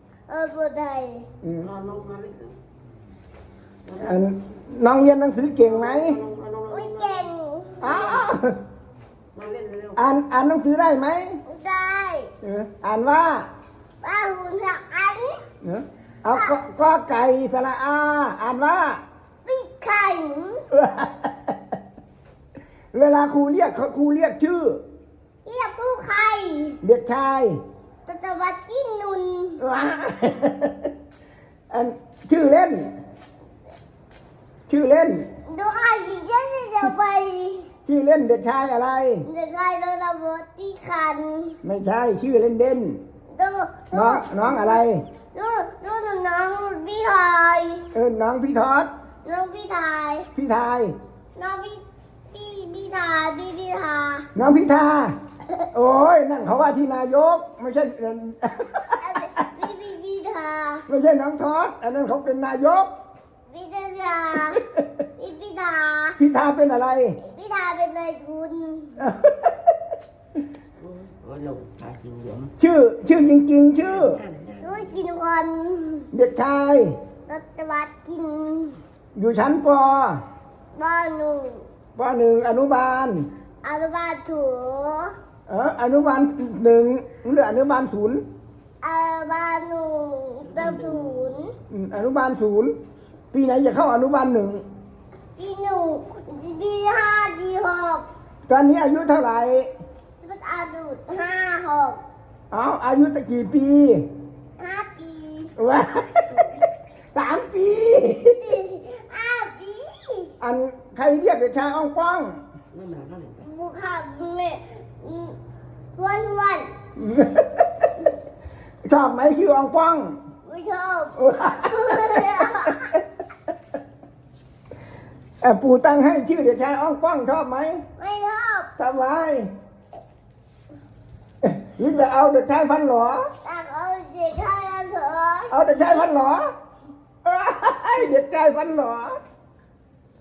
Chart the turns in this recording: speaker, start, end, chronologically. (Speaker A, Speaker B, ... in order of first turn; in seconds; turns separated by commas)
Speaker A: 0.3-1.3, Speaker B: 1.4-1.7, Speaker C: 1.7-2.6, Speaker B: 3.9-6.2, Speaker C: 5.9-7.3, Speaker A: 6.7-8.1, Speaker B: 7.8-8.6, Speaker C: 9.3-10.0, Speaker B: 10.0-11.4, Speaker A: 11.4-12.3, Speaker B: 12.4-13.5, Speaker A: 14.0-15.4, Speaker B: 15.6-19.0, Speaker A: 19.4-20.7, Speaker B: 20.7-21.6, Speaker B: 22.9-24.8, Speaker A: 25.4-26.8, Speaker B: 26.8-27.6, Speaker A: 28.1-29.6, Speaker B: 29.6-30.9, Speaker B: 31.7-32.9, Speaker B: 34.7-35.3, Speaker A: 35.5-37.7, Speaker B: 37.9-39.2, Speaker A: 39.3-41.6, Speaker B: 41.6-43.0, Speaker A: 43.3-44.8, Speaker B: 43.9-45.0, Speaker A: 45.3-47.9, Speaker B: 47.9-48.9, Speaker A: 49.2-50.3, Speaker B: 50.3-51.0, Speaker A: 51.4-54.3, Speaker B: 54.4-55.1, Speaker B: 55.7-59.0, Speaker A: 59.0-60.9, Speaker B: 60.9-62.9, Speaker A: 63.5-64.6, Speaker A: 65.2-66.2, Speaker B: 66.2-67.2, Speaker A: 67.2-69.1, Speaker B: 69.0-69.5, Speaker C: 70.8-72.5, Speaker B: 72.6-74.2, Speaker C: 74.2-74.9, Speaker A: 74.6-76.1, Speaker B: 76.1-76.9, Speaker A: 77.3-78.8, Speaker B: 79.2-80.2, Speaker A: 80.8-81.7, Speaker B: 82.0-83.3, Speaker A: 83.6-85.2, Speaker B: 85.5-88.2, Speaker A: 88.8-91.5, Speaker C: 90.5-91.2, Speaker B: 91.7-92.7, Speaker B: 93.3-94.6, Speaker A: 95.4-98.1, Speaker B: 98.5-99.7, Speaker A: 100.2-102.0, Speaker B: 102.5-104.1, Speaker A: 104.6-105.5, Speaker B: 105.6-106.6, Speaker B: 107.1-108.5, Speaker A: 108.4-110.3, Speaker B: 110.4-112.4, Speaker C: 112.7-113.5, Speaker A: 113.4-115.4, Speaker A: 115.9-116.7, Speaker B: 117.0-117.9, Speaker B: 118.8-120.2, Speaker A: 120.5-122.9, Speaker B: 121.2-122.7, Speaker B: 125.4-127.8, Speaker A: 128.0-128.7, Speaker B: 128.8-129.5, Speaker B: 131.4-133.3, Speaker A: 133.4-136.0, Speaker B: 135.5-136.5, Speaker B: 137.2-139.2